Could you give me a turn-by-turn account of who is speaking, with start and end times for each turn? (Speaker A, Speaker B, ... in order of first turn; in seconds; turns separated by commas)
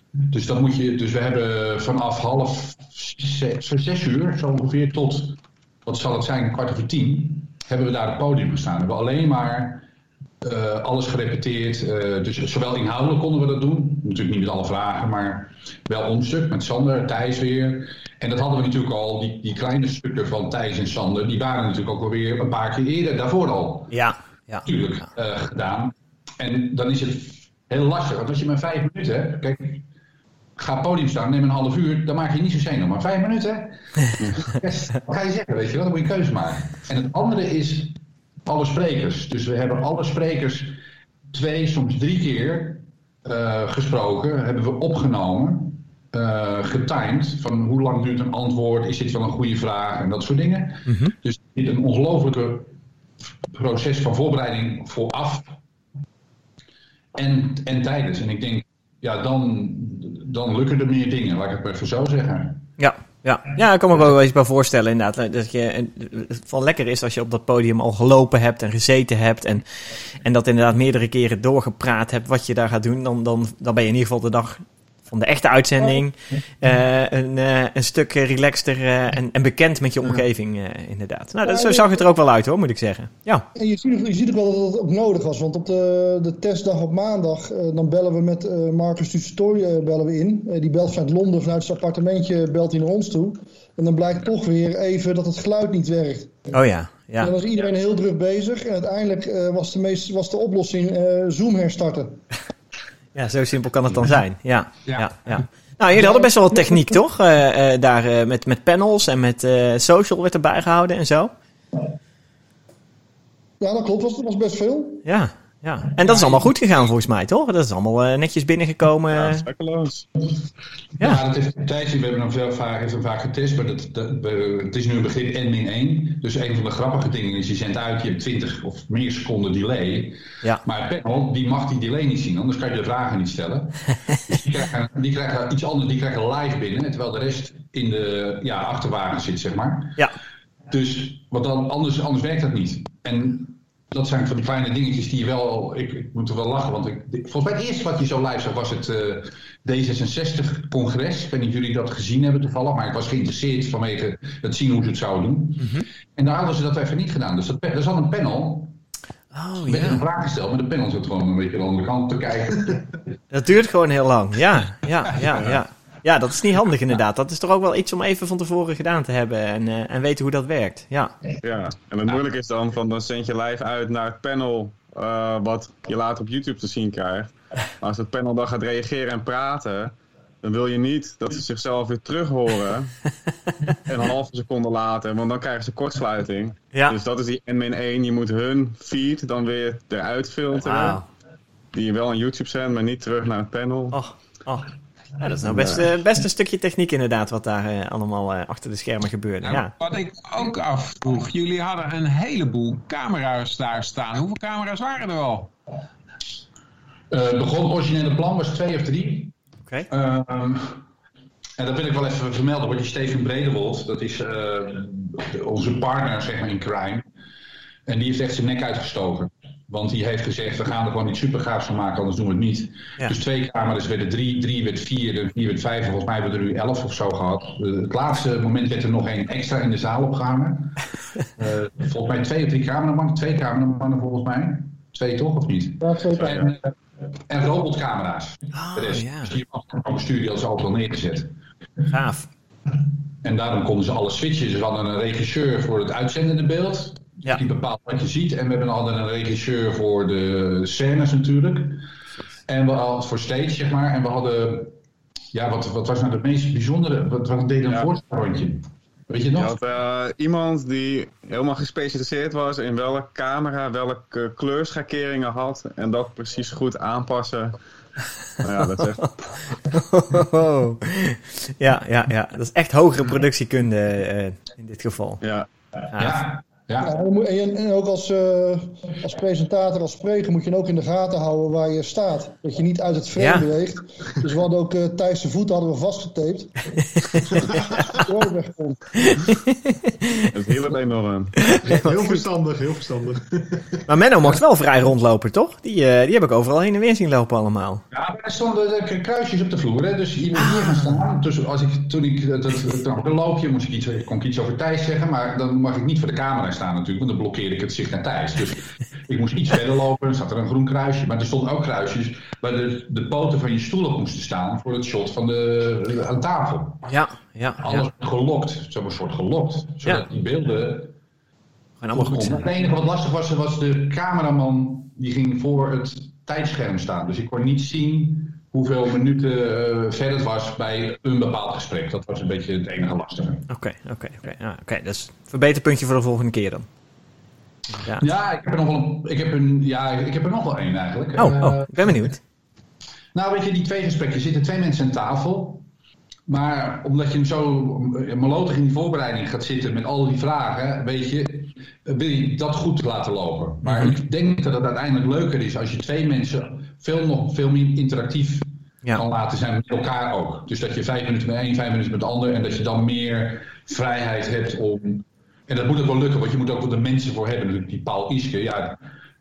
Speaker A: 0.2-9.9, Speaker A: 10.4-24.0, Speaker B: 23.9-24.7, Speaker A: 24.6-29.8, Speaker A: 30.6-33.8, Speaker C: 34.2-34.5, Speaker A: 34.4-40.8, Speaker A: 41.3-52.7, Speaker B: 50.9-51.1, Speaker A: 53.5-55.6, Speaker A: 57.1-62.6, Speaker B: 62.8-69.7, Speaker B: 70.2-83.5, Speaker D: 81.5-82.0, Speaker D: 83.5-96.5, Speaker B: 96.5-97.3, Speaker D: 97.2-102.2, Speaker B: 103.2-111.3, Speaker D: 113.6-115.0, Speaker B: 115.0-119.5, Speaker C: 119.1-120.1, Speaker A: 121.0-140.0, Speaker A: 140.7-158.8, Speaker B: 155.6-155.8, Speaker B: 159.3-160.1, Speaker A: 159.7-162.9, Speaker B: 163.3-171.2, Speaker C: 165.3-165.6, Speaker C: 171.4-183.0, Speaker C: 183.9-191.0, Speaker B: 190.6-191.1, Speaker C: 191.7-194.0, Speaker B: 193.9-194.7, Speaker B: 195.2-199.7, Speaker C: 195.5-195.8, Speaker E: 199.4-205.5, Speaker A: 207.1-209.3, Speaker A: 209.9-210.8, Speaker A: 211.6-217.0, Speaker A: 217.9-230.8, Speaker A: 231.4-236.7, Speaker D: 235.8-236.3, Speaker C: 236.2-236.5, Speaker A: 237.3-241.3, Speaker B: 238.5-239.4, Speaker B: 241.9-242.3, Speaker A: 243.2-251.8, Speaker A: 252.5-254.7, Speaker A: 255.3-259.6, Speaker C: 259.4-267.6, Speaker C: 268.4-269.2, Speaker B: 269.7-275.2, Speaker C: 275.2-275.5, Speaker B: 275.9-276.2, Speaker A: 276.0-276.9, Speaker D: 276.8-286.7, Speaker B: 283.2-283.5, Speaker B: 287.1-287.8, Speaker D: 287.4-288.9, Speaker B: 289.0-290.3, Speaker C: 290.3-291.6, Speaker B: 291.5-292.2, Speaker F: 291.6-293.8, Speaker B: 293.9-297.8, Speaker A: 297.9-316.9, Speaker B: 300.4-301.0, Speaker B: 316.9-317.8, Speaker A: 317.6-320.9, Speaker B: 321.8-322.4, Speaker A: 321.9-333.5, Speaker B: 333.5-336.7, Speaker B: 337.8-338.1, Speaker A: 338.0-341.9, Speaker B: 341.2-342.2, Speaker A: 343.1-345.6, Speaker A: 346.3-368.8, Speaker B: 353.6-354.0